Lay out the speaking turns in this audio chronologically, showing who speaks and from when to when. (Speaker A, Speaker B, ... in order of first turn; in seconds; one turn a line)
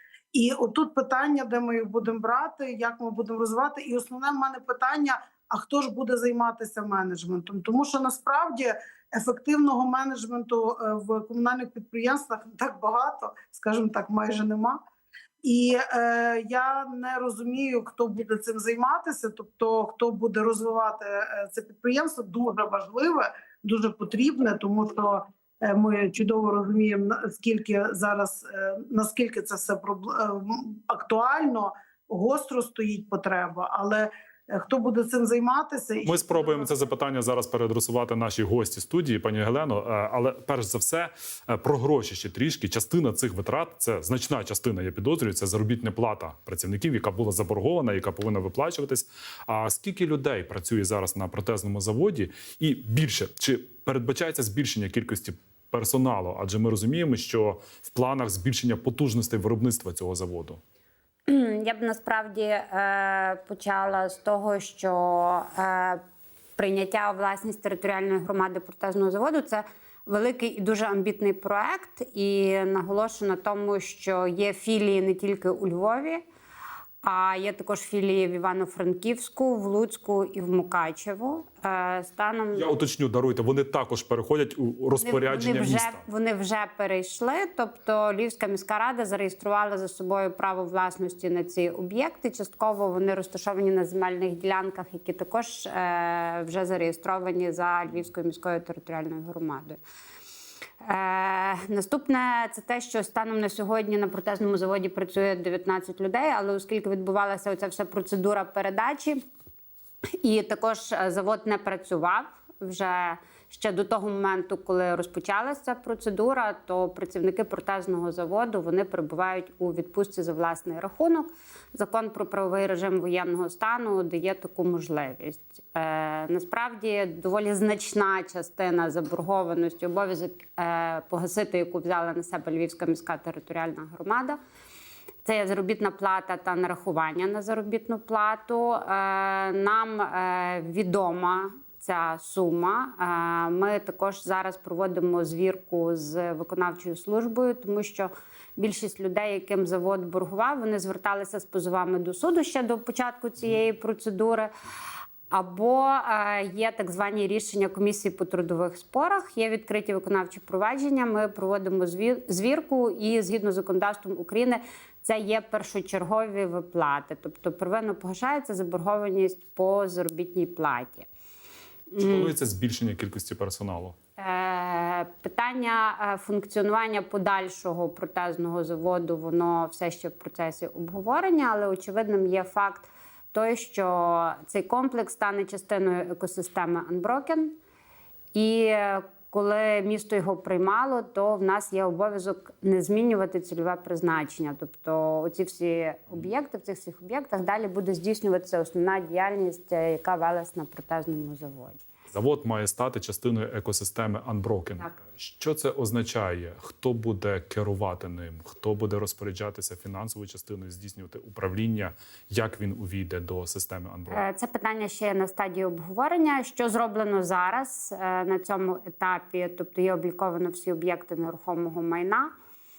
Speaker A: 0.3-14.8
Speaker A: 15.4-36.7
Speaker B: 36.0-60.6
Speaker C: 61.3-66.0
Speaker C: 66.6-76.2
Speaker C: 77.0-82.7
Speaker B: 82.5-86.0
Speaker C: 85.0-99.8
Speaker C: 100.8-109.2
Speaker C: 110.2-134.4
Speaker C: 135.2-154.5
Speaker C: 155.3-171.1
Speaker C: 171.9-172.3
Speaker B: 172.0-173.9
Speaker C: 174.2-187.6
Speaker C: 188.3-201.8
Speaker B: 202.1-214.2
Speaker C: 214.1-222.3